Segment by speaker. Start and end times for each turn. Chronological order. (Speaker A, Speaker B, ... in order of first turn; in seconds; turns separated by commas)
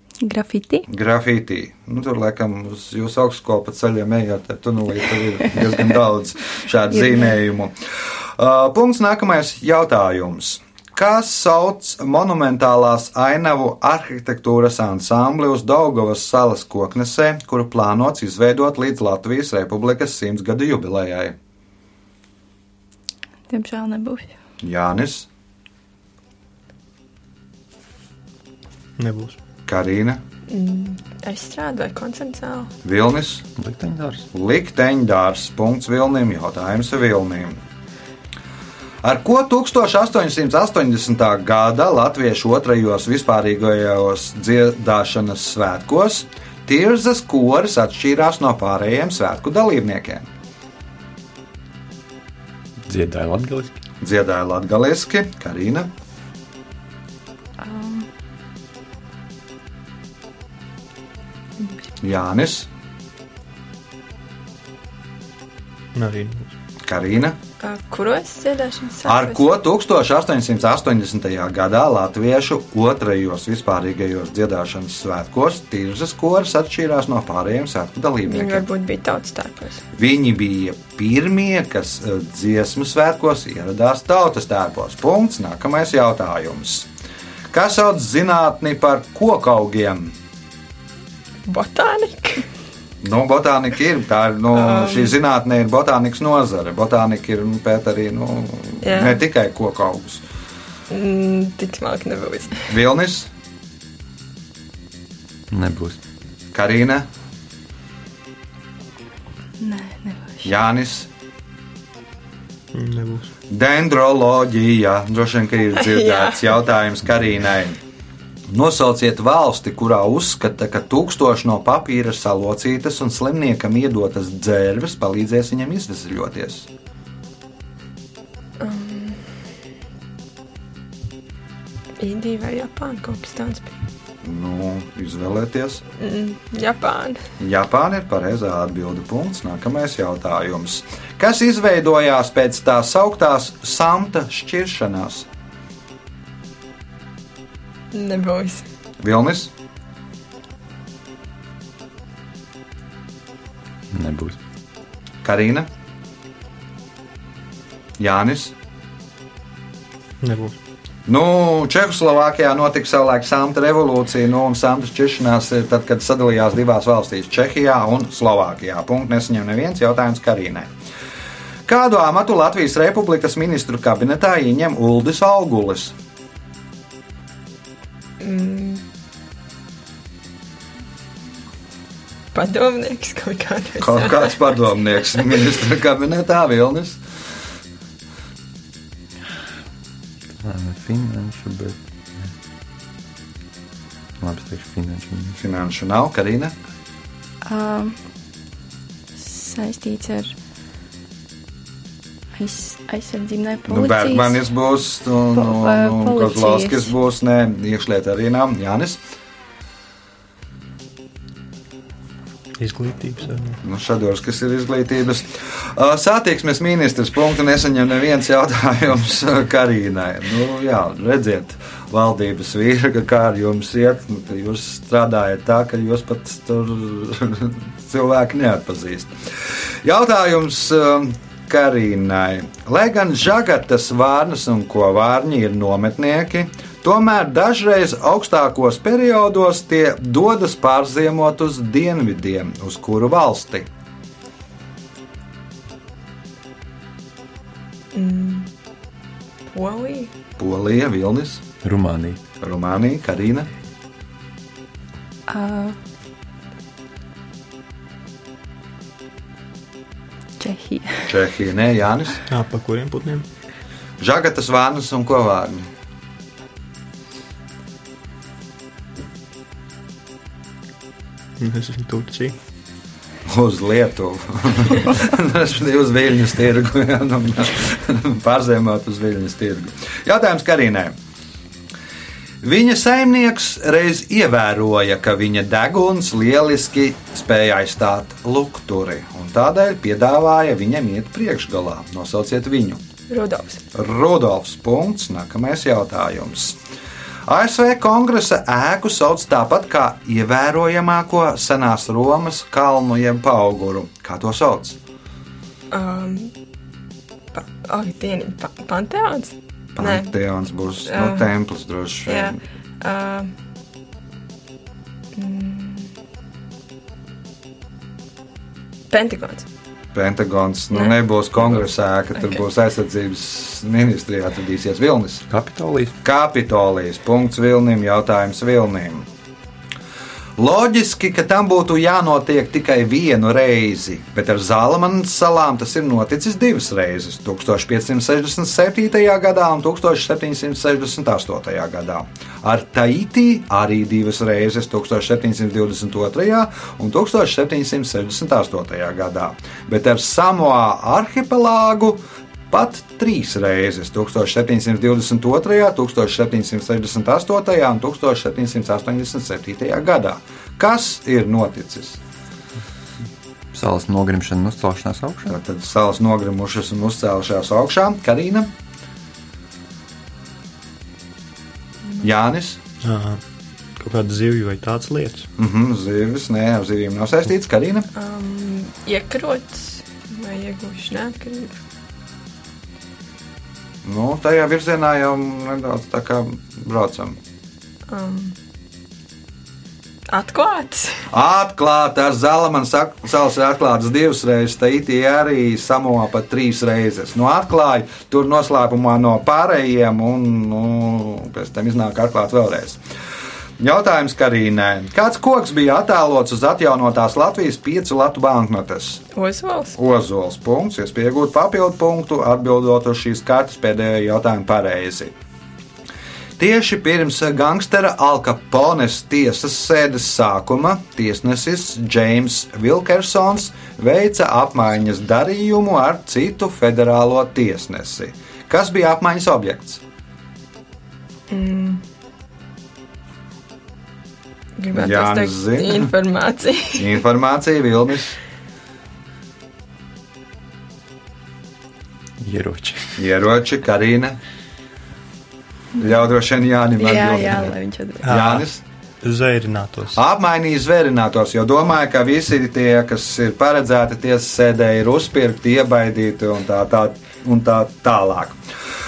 Speaker A: 0.2-0.9, Speaker B: 0.9-7.7, Speaker B: 8.3-21.4, Speaker A: 23.5-24.3, Speaker B: 24.6-25.3, Speaker C: 29.0-29.4, Speaker B: 29.7-30.2, Speaker D: 30.5-32.7, Speaker B: 32.8-33.5, Speaker E: 33.5-34.2, Speaker B: 34.3-37.6, Speaker B: 39.0-50.3, Speaker E: 52.9-53.8, Speaker B: 54.0-55.9, Speaker A: 57.6-58.1, Speaker B: 62.0-62.7, Speaker C: 65.9-66.5, Speaker B: 66.8-67.4, Speaker D: 67.6-69.4, Speaker B: 69.0-78.6, Speaker D: 78.2-79.8, Speaker B: 79.9-86.9, Speaker B: 87.5-90.1, Speaker D: 91.5-92.5, Speaker B: 93.0-100.2, Speaker D: 94.5-95.1, Speaker D: 98.8-99.2, Speaker D: 100.9-102.7, Speaker B: 102.7-103.3, Speaker E: 105.5-106.0, Speaker B: 106.5-107.0, Speaker A: 109.6-110.5, Speaker B: 110.4-111.1, Speaker C: 112.7-113.3, Speaker B: 113.5-117.8, Speaker D: 115.8-116.4, Speaker B: 118.5-126.7, Speaker D: 128.6-129.2, Speaker D: 132.0-133.8, Speaker B: 134.2-135.8, Speaker D: 136.0-137.2, Speaker B: 137.4-145.3, Speaker D: 147.9-148.7, Speaker B: 149.0-149.5, Speaker E: 153.9-154.4, Speaker B: 155.2-155.7, Speaker B: 158.0-158.5, Speaker C: 160.2-160.6, Speaker B: 161.1-170.7, Speaker B: 171.7-175.9, Speaker D: 178.2-178.8, Speaker D: 182.3-184.5, Speaker B: 183.8-187.0, Speaker E: 190.4-192.3, Speaker E: 194.2-195.4, Speaker B: 195.4-196.5, Speaker A: 197.4-198.0, Speaker A: 199.2-200.3, Speaker A: 202.3-204.4, Speaker B: 203.7-209.0, Speaker A: 205.3-206.9, Speaker C: 212.6-213.6, Speaker B: 213.6-229.1, Speaker B: 229.8-243.7, Speaker D: 247.9-248.5, Speaker D: 249.5-250.1, Speaker B: 250.4-251.4, Speaker E: 251.6-252.2, Speaker B: 252.4-253.5, Speaker A: 255.3-255.8, Speaker A: 260.4-261.1, Speaker B: 261.1-262.2, Speaker C: 262.3-263.2, Speaker B: 264.0-265.7, Speaker C: 271.4-272.3, Speaker B: 273.3-280.9, Speaker B: 282.4-292.8, Speaker D: 293.1-293.6, Speaker B: 293.7-296.6, Speaker B: 297.2-304.8, Speaker D: 305.7-306.3, Speaker D: 307.3-310.1, Speaker B: 309.8-312.4, Speaker D: 310.9-311.2, Speaker D: 312.1-313.3, Speaker D: 315.1-315.9, Speaker D: 318.9-319.4, Speaker B: 319.9-325.2, Speaker E: 325.3-325.9, Speaker B: 326.0-329.1, Speaker B: 330.4-362.0, Speaker E: 363.5-365.4, Speaker B: 365.3-368.5, Speaker B: 372.0-372.6, Speaker C: 372.8-373.2, Speaker C: 373.8-375.3, Speaker B: 375.4-377.9, Speaker D: 377.9-381.6, Speaker B: 383.8-387.2, Speaker D: 387.9-388.4, Speaker D: 390.1-391.0, Speaker B: 391.1-402.8, Speaker B: 403.6-409.0, Speaker D: 409.1-409.8, Speaker B: 409.8-415.1, Speaker B: 416.4-429.8, Speaker D: 431.3-431.8, Speaker D: 434.6-436.9, Speaker B: 434.7-435.9, Speaker B: 436.7-438.2, Speaker E: 442.2-443.0, Speaker B: 443.0-444.2, Speaker B: 445.8-448.6, Speaker A: 446.8-448.1, Speaker C: 448.0-448.4, Speaker C: 449.0-450.0, Speaker B: 449.9-458.4